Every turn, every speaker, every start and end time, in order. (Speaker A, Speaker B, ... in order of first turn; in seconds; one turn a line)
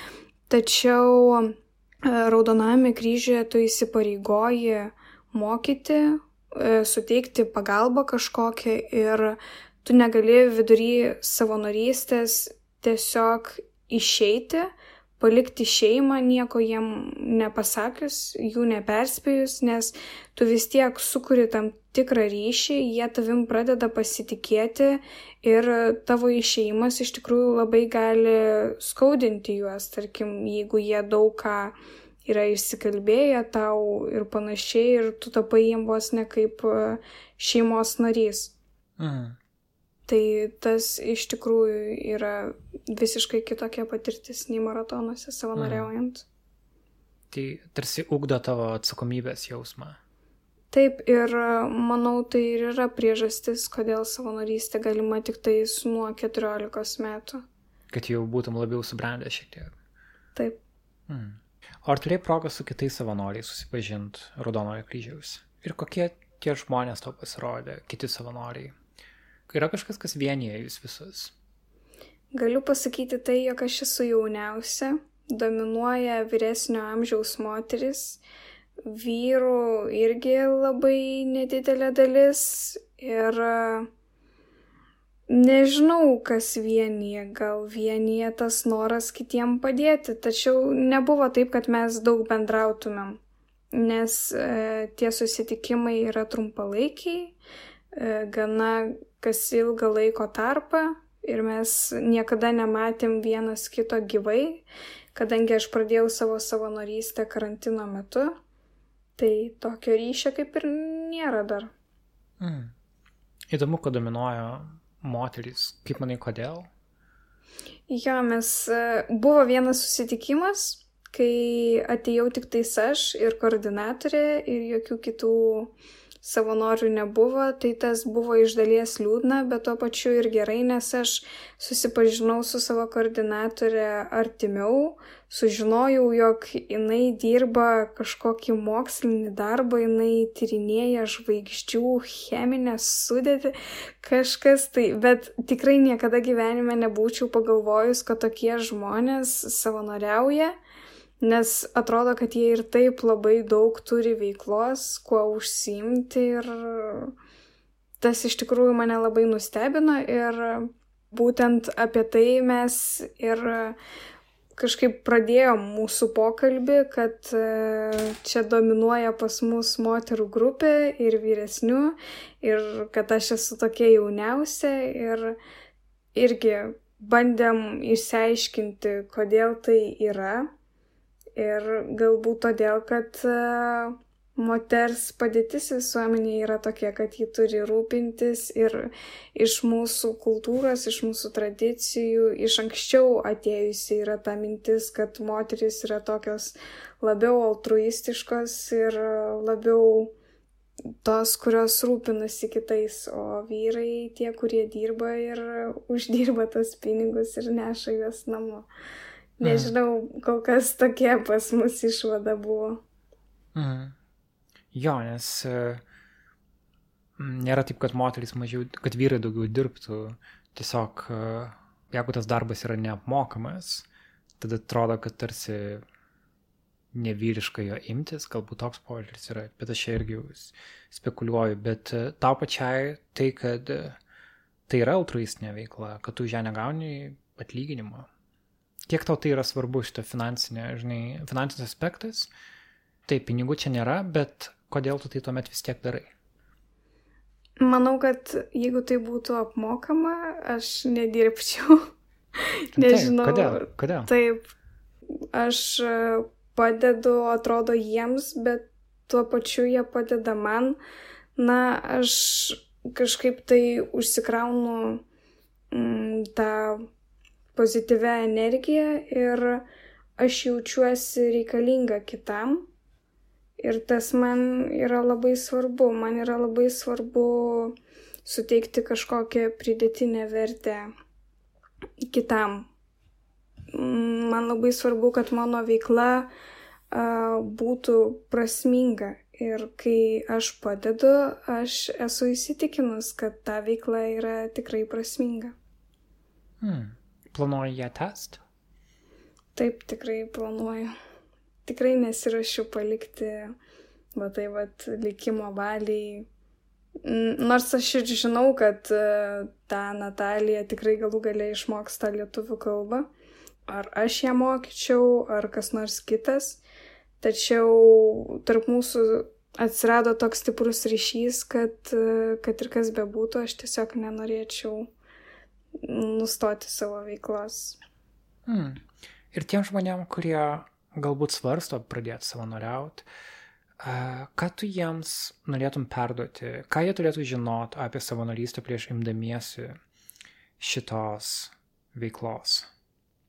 Speaker A: 0.5-38.5
Speaker B: 39.0-39.4
Speaker A: 40.1-46.2
Speaker B: 45.5-45.9
Speaker B: 47.3-50.0
Speaker A: 50.7-57.4
Speaker B: 57.9-59.7
Speaker B: 61.1-68.8
Speaker B: 69.5-71.3
Speaker A: 72.3-78.2
Speaker A: 78.8-83.9
Speaker A: 85.3-93.2
Speaker A: 93.7-97.3
Speaker A: 97.9-108.4
Speaker A: 109.2-111.7
Speaker B: 112.4-112.7
Speaker B: 113.5-116.7
Speaker A: 117.9-150.6
Speaker A: 151.2-157.1
Speaker A: 158.0-163.8
Speaker A: 164.5-175.3
Speaker A: 176.1-180.5
Speaker A: 181.4-200.1
Speaker A: 201.0-208.7
Speaker A: 209.4-212.8
Speaker B: 209.4-209.7
Speaker B: 213.5-213.9
Speaker B: 214.7-215.8
Speaker B: 217.2-223.9
Speaker B: 224.4-225.8
Speaker B: 226.9-234.0
Speaker B: 234.7-238.1
Speaker B: 238.9-242.3
Speaker B: 243.1-246.1
Speaker A: 247.6-251.9
Speaker B: 252.7-254.1
Speaker A: 252.7-254.5
Speaker A: 255.3-260.8
Speaker A: 261.4-265.0
Speaker A: 265.7-266.9
Speaker A: 267.6-269.6
Speaker A: 270.2-272.7
Speaker A: 273.6-280.9
Speaker A: 282.1-282.7
Speaker A: 283.7-286.3
Speaker A: 286.9-295.5
Speaker B: 296.6-298.4
Speaker A: 299.6-300.9
Speaker A: 301.6-303.5
Speaker A: 304.1-306.3
Speaker A: 307.0-313.1
Speaker A: 313.7-316.6
Speaker A: 317.2-324.9
Speaker A: 325.8-327.8
Speaker B: 328.4-333.1
Speaker B: 333.8-339.8
Speaker B: 340.6-342.7